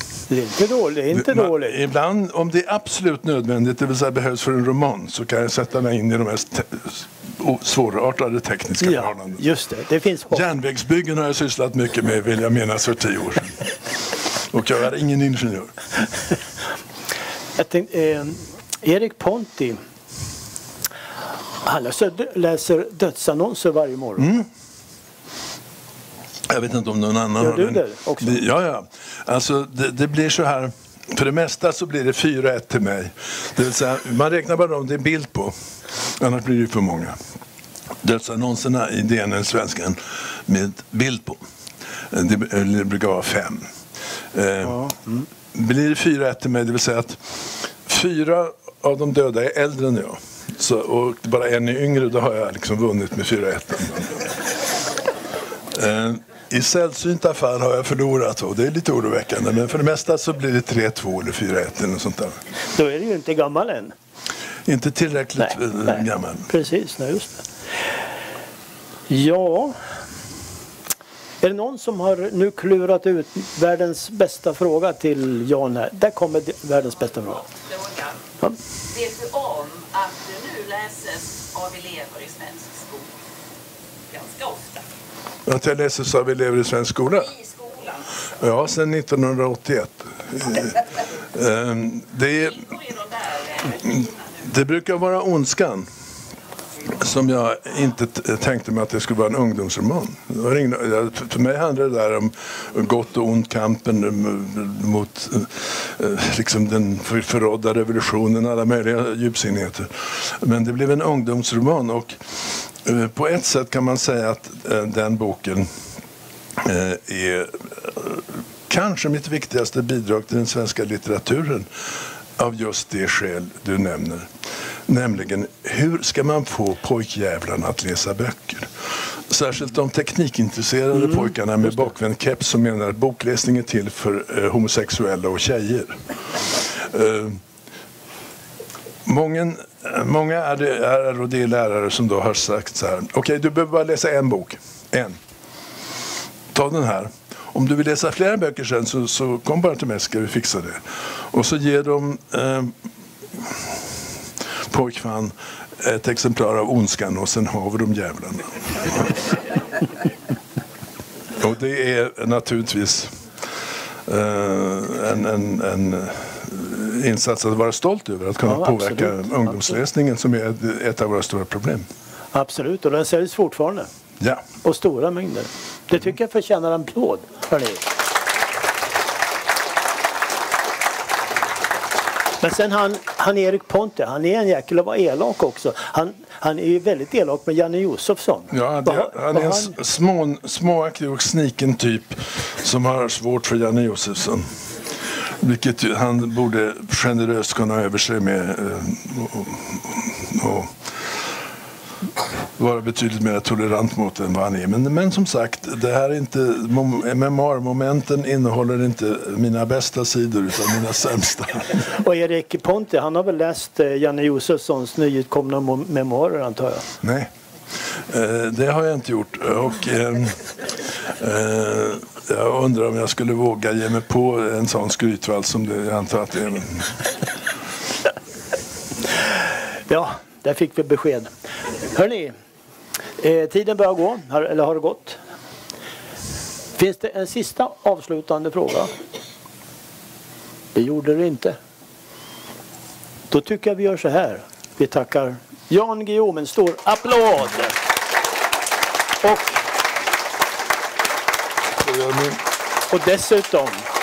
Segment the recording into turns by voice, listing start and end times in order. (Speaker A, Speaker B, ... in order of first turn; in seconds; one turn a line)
Speaker A: 0.3-1.8
Speaker B: 1.1-9.4
Speaker A: 8.8-10.4
Speaker B: 10.3-13.7
Speaker B: 14.5-15.7
Speaker A: 17.6-19.8
Speaker A: 21.6-24.3
Speaker B: 24.2-24.5
Speaker B: 26.5-35.5
Speaker A: 27.4-28.4
Speaker B: 36.2-37.2
Speaker B: 38.0-41.4
Speaker B: 42.1-43.7
Speaker B: 44.3-45.0
Speaker B: 45.5-47.2
Speaker B: 47.8-54.2
Speaker B: 55.7-62.4
Speaker A: 62.7-63.9
Speaker B: 64.7-66.5
Speaker A: 65.4-67.4
Speaker A: 69.1-69.7
Speaker A: 71.4-77.4
Speaker C: 77.3-78.2
Speaker C: 78.8-83.1
Speaker C: 84.1-84.8
Speaker B: 85.5-87.3
Speaker C: 87.3-88.0
Speaker B: 88.4-92.7
Speaker C: 92.6-94.1
Speaker B: 93.8-95.9
Speaker B: 96.9-112.2
Speaker B: 112.8-115.7
Speaker B: 116.6-121.7
Speaker B: 122.4-124.3
Speaker B: 124.9-128.7
Speaker B: 129.3-136.0
Speaker B: 136.6-137.4
Speaker B: 139.1-145.2
Speaker B: 146.5-152.7
Speaker B: 153.4-153.6
Speaker B: 154.7-159.1
Speaker B: 161.4-163.1
Speaker B: 164.1-171.9
Speaker A: 168.4-169.7
Speaker A: 172.3-173.9
Speaker B: 174.2-174.4
Speaker A: 174.6-177.8
Speaker A: 182.4-189.7
Speaker B: 188.5-194.5
Speaker B: 195.4-200.8
Speaker B: 202.6-211.8
Speaker A: 211.8-216.8
Speaker B: 217.0-217.3
Speaker B: 218.1-220.4
Speaker B: 221.0-227.0
Speaker A: 229.9-231.3
Speaker A: 231.8-232.3
Speaker A: 233.2-235.2
Speaker A: 236.8-238.9
Speaker A: 240.7-241.6
Speaker A: 243.3-247.8
Speaker A: 249.2-249.6
Speaker B: 251.8-252.4
Speaker A: 252.9-253.9